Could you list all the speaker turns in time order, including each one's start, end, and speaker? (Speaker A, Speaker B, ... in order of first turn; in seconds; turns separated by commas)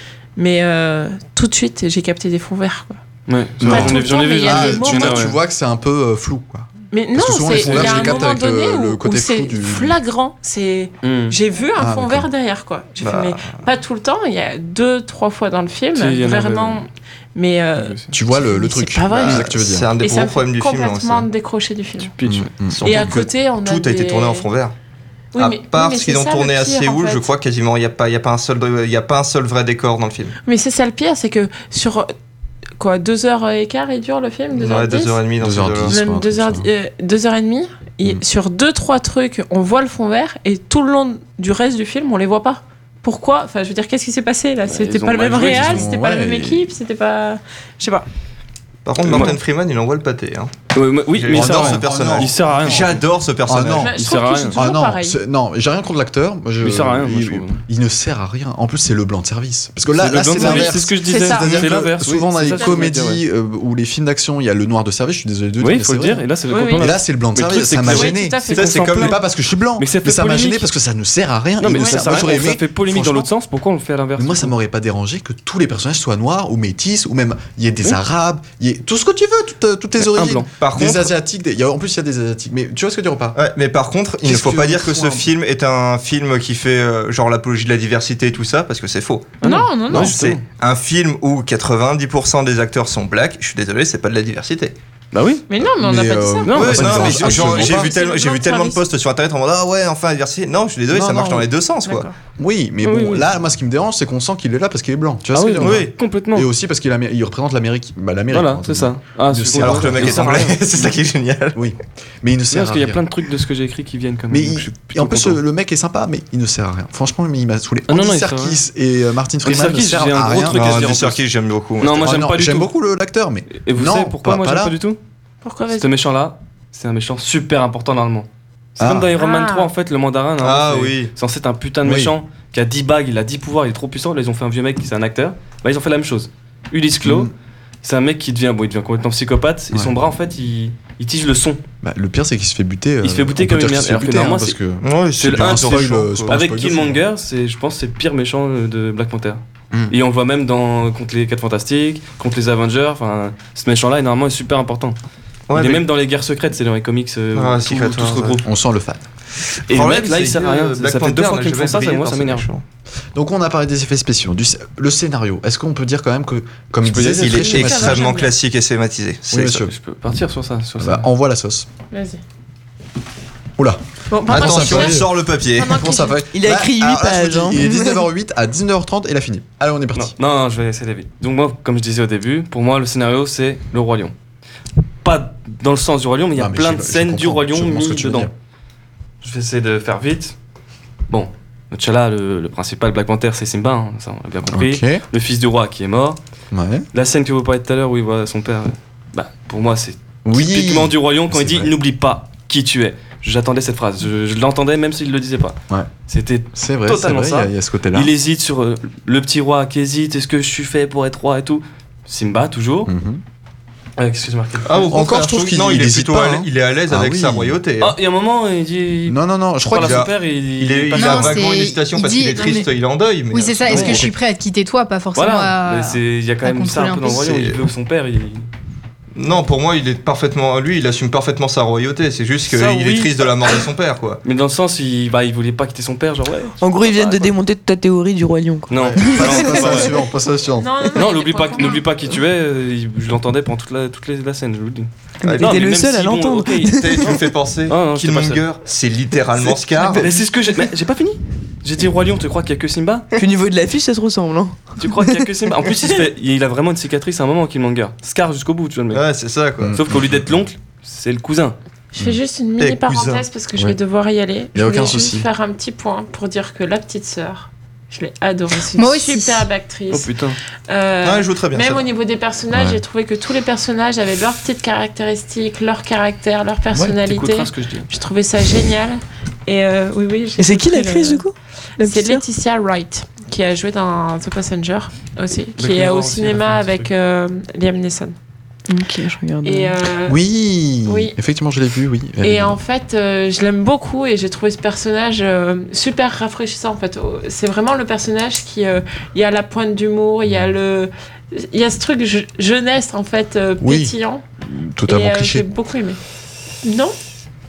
Speaker A: 0.3-3.0, Speaker B: 3.3-5.4, Speaker C: 3.6-10.0, Speaker A: 3.6-5.3, Speaker A: 6.9-22.1, Speaker B: 7.5-8.2, Speaker B: 11.0-11.3, Speaker C: 11.8-12.3, Speaker D: 13.0-13.6, Speaker B: 15.9-16.9, Speaker B: 17.8-18.1, Speaker C: 18.1-19.9, Speaker D: 19.3-21.3, Speaker B: 22.2-22.5, Speaker C: 22.2-23.2, Speaker A: 22.8-24.4, Speaker D: 22.8-24.7, Speaker A: 25.3-27.3, Speaker D: 25.4-30.4, Speaker A: 30.4-32.1, Speaker A: 32.8-35.2, Speaker D: 34.5-36.0, Speaker C: 35.4-36.7, Speaker A: 35.9-48.0, Speaker B: 44.6-45.8, Speaker C: 45.4-46.7, Speaker D: 48.8-50.5, Speaker B: 49.0-49.4, Speaker B: 50.7-52.9, Speaker D: 51.1-54.0, Speaker C: 51.3-53.9, Speaker A: 53.8-55.2, Speaker B: 53.9-54.6, Speaker C: 54.5-66.2, Speaker B: 56.6-57.6, Speaker B: 59.9-63.2, Speaker A: 60.3-61.6, Speaker A: 62.5-62.9, Speaker B: 65.6-69.2, Speaker A: 66.5-66.9, Speaker C: 66.8-73.3, Speaker A: 67.8-68.9, Speaker D: 68.5-69.2, Speaker B: 69.8-70.7, Speaker B: 71.6-74.5, Speaker A: 71.8-72.2, Speaker C: 74.2-83.4, Speaker B: 80.0-80.5, Speaker D: 80.6-81.1, Speaker D: 83.3-94.7, Speaker C: 84.2-85.3, Speaker B: 89.4-90.4, Speaker A: 89.4-90.1, Speaker B: 95.1-95.5, Speaker A: 95.5-98.8, Speaker C: 95.6-97.9, Speaker B: 96.4-97.5, Speaker D: 96.5-102.1, Speaker A: 100.9-102.1, Speaker C: 102.4-110.6, Speaker B: 102.8-103.2, Speaker B: 105.3-106.5, Speaker D: 105.6-105.9, Speaker B: 108.3-110.6, Speaker D: 109.6-111.6, Speaker C: 111.5-113.0, Speaker B: 112.5-115.4, Speaker C: 114.3-121.0, Speaker B: 117.9-118.6, Speaker B: 119.4-121.2, Speaker D: 120.5-122.0, Speaker B: 121.8-122.7, Speaker C: 121.9-124.8, Speaker B: 123.6-125.0, Speaker A: 125.4-125.9, Speaker B: 125.7-137.3, Speaker C: 128.8-129.1, Speaker A: 129.2-129.7, Speaker D: 130.4-131.1, Speaker C: 131.8-132.1, Speaker C: 137.0-137.3, Speaker B: 137.8-141.6, Speaker C: 141.8-147.0, Speaker B: 143.0-144.6, Speaker D: 144.8-146.3, Speaker B: 145.2-154.9, Speaker D: 155.5-155.8, Speaker B: 155.5-158.4, Speaker D: 157.3-158.4, Speaker C: 158.4-159.0, Speaker B: 159.7-162.5, Speaker D: 159.7-162.6, Speaker C: 163.1-168.1, Speaker B: 166.8-167.5, Speaker D: 167.2-169.6, Speaker A: 167.3-168.3, Speaker C: 169.3-169.7, Speaker B: 169.6-171.1, Speaker C: 170.8-171.7, Speaker A: 171.9-172.2, Speaker C: 173.6-180.1, Speaker A: 174.1-176.2, Speaker D: 174.2-175.8, Speaker E: 176.3-178.0, Speaker B: 179.9-184.1, Speaker B: 185.0-188.3, Speaker C: 186.3-188.3, Speaker B: 189.2-190.3, Speaker B: 191.1-196.2, Speaker C: 194.5-195.0, Speaker C: 196.5-196.9, Speaker B: 196.9-205.6, Speaker C: 200.2-201.7, Speaker B: 206.1-212.9, Speaker C: 206.5-208.1, Speaker C: 212.8-213.2, Speaker B: 214.0-215.0, Speaker D: 214.7-217.9, Speaker C: 214.9-217.6, Speaker B: 217.8-221.5, Speaker C: 219.1-220.1, Speaker D: 219.8-224.1, Speaker F: 221.0-222.7, Speaker F: 223.3-227.4, Speaker B: 223.7-224.1, Speaker B: 225.1-228.4, Speaker D: 227.2-227.5, Speaker D: 229.1-234.2, Speaker B: 232.5-233.6, Speaker B: 234.2-237.3, Speaker E: 236.6-239.9, Speaker B: 238.7-240.0, Speaker C: 238.7-240.7, Speaker A: 240.6-241.8, Speaker B: 240.9-248.4, Speaker E: 245.2-247.2, Speaker D: 245.2-245.6, Speaker D: 246.6-250.1, Speaker B: 249.4-253.1, Speaker E: 253.2-255.3, Speaker B: 254.8-259.0, Speaker D: 258.9-259.7, Speaker C: 259.6-260.4, Speaker B: 259.7-261.6, Speaker A: 261.9-270.1, Speaker D: 262.6-263.2, Speaker C: 264.5-265.3, Speaker F: 268.7-269.5, Speaker B: 269.9-270.4, Speaker A: 270.7-281.2, Speaker D: 271.0-271.9, Speaker C: 272.5-272.8, Speaker B: 276.7-277.9, Speaker E: 280.4-282.2, Speaker A: 281.8-288.1, Speaker B: 285.6-286.9, Speaker E: 288.7-289.7, Speaker A: 289.4-290.2, Speaker C: 290.1-292.6, Speaker A: 290.9-291.1, Speaker A: 292.2-304.2, Speaker C: 303.6-303.9, Speaker C: 304.4-305.4, Speaker A: 304.9-306.0, Speaker A: 306.6-306.9